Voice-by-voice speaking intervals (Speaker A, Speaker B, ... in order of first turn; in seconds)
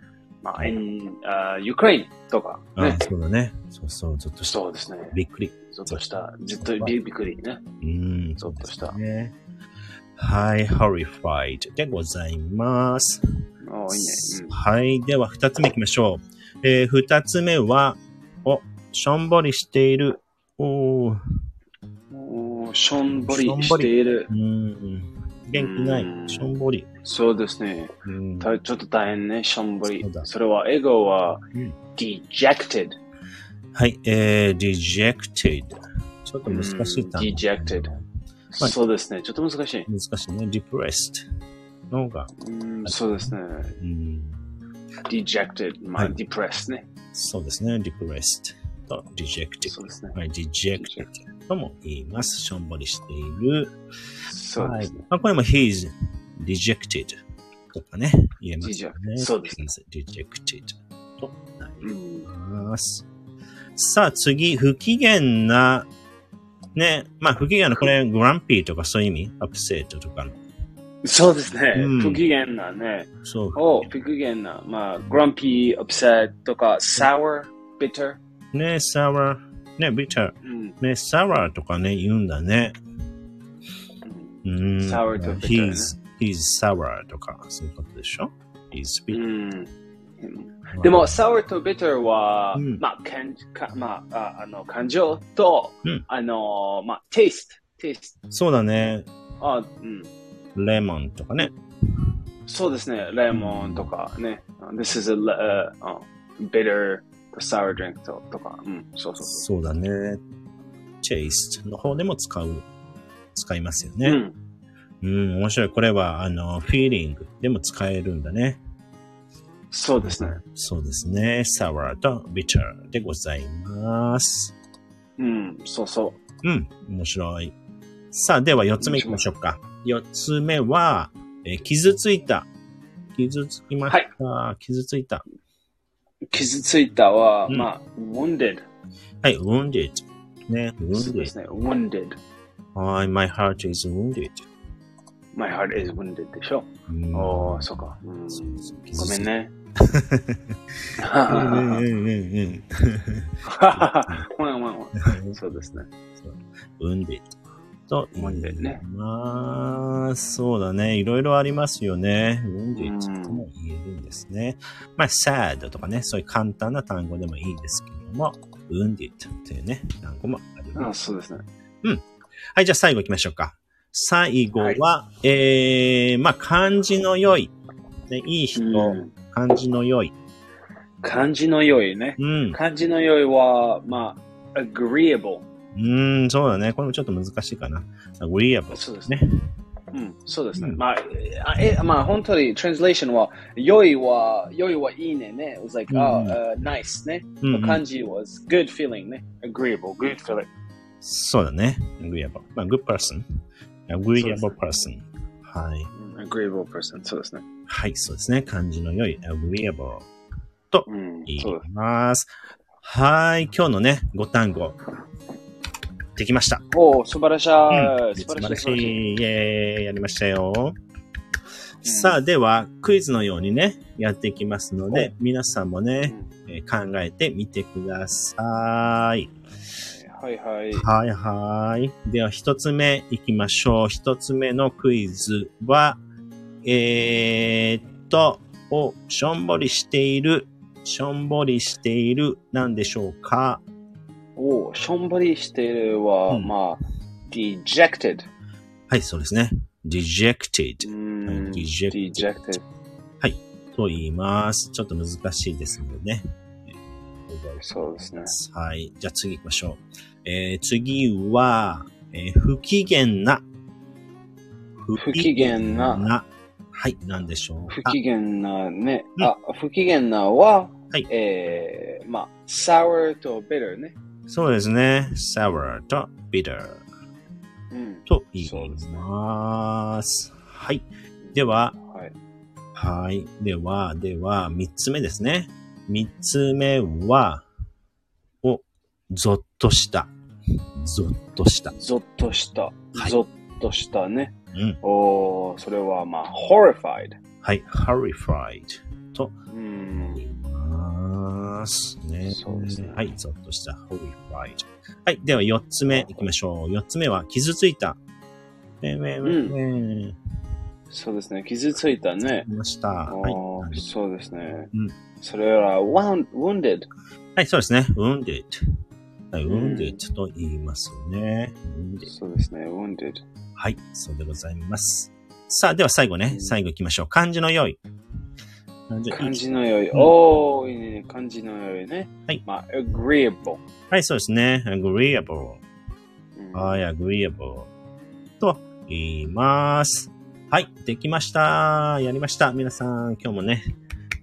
Speaker A: 0.4-3.1, 4.4-7.6, 8.4-9.0, 13.6-14.6, 22.1-24.3, 25.5-26.5, 27.0-31.4, 31.9-32.9, 36.5-37.9, 38.5-39.9, 42.4-43.7, 45.1-46.8, 49.6-50.2, 50.8-51.1, 54.3-55.0, 58.6-59.6, 61.8-62.3, 71.0-78.2, 80.4-80.7, 84.0-85.9, 89.1-98.2, 99.4-100.1, 102.5-109.4, 114.0-114.3, 119.7-120.4, 125.2-126.2, 128.8-129.3, 136.3-138.6, 140.9-142.2, 145.3-149.5, 151.0-151.8, 153.4-155.9, 158.1-158.8, 162.8-163.4, 170.7-171.4, 178.6-179.1, 181.0-185.4, 188.7-189.1, 189.9-200.5, 204.1-204.6, 205.9-207.4, 210.8-211.6, 216.7-219.0, 221.8-222.2, 229.9-230.9, 244.4-248.2, 250.8-252.6, 257.6-258.3, 264.9-266.1, 267.7-273.9, 277.7-279.1, 281.2-282.1, 291.7-297.1, 299.5-300.2, 302.2-303.0, 305.9-306.3, 309.2-309.6, 310.9-312.5, 313.1-316.9, 319.4-320.0, 322.1-323.2, 326.3-326.6, 329.1-333.6, 336.4-336.8
Speaker B: 2.8-4.6, 5.1-6.0, 6.6-7.0, 7.8-9.3, 10.2-13.2, 13.9-21.2, 23.1-26.9, 28.1-28.5, 29.9-30.3, 33.7-38.0, 39.9-41.2, 41.9-42.3, 42.8-44.6, 47.1-53.7, 54.6-57.2, 57.7-63.0, 63.8-65.9, 66.8-70.4, 71.7-72.2, 73.2-73.9, 78.5-82.7, 84.4-89.2, 90.7-91.2, 92.5-92.8, 98.3-99.0, 100.5-101.5, 103.3-103.9, 109.2-110.2, 111.0-112.7, 113.3-114.2, 115.0-118.6, 120.0-124.5, 126.4-127.5, 128.1-132.5, 133.2-135.2, 139.2-141.3, 142.7-144.5, 146.9-150.5, 151.3-154.2, 155.0-157.3, 157.9-170.9, 172.5-177.5, 178.1-180.1, 182.2-182.6, 185.7-189.4, 190.5-190.8, 195.9-196.4, 197.4-197.8, 201.0-203.2, 203.9-205.9, 207.7-210.1, 210.7-212.3, 212.8-214.8, 216.2-216.6, 217.7-220.8, 221.8-229.3, 230.7-236.0, 236.6-243.6, 248.9-252.6, 253.2-263.4, 264.8-268.0, 274.3-276.8, 278.1-281.8, 282.7-287.4, 288.4-290.1, 290.8-291.7, 294.5-294.8, 297.4-299.3, 299.9-308.0, 308.8-310.1, 312.2-313.8, 317.4-318.6, 319.3-322.1, 323.6-327.8, 328.9-330.1, 333.9-335.6, 336.5-337.7, 338.4-343.7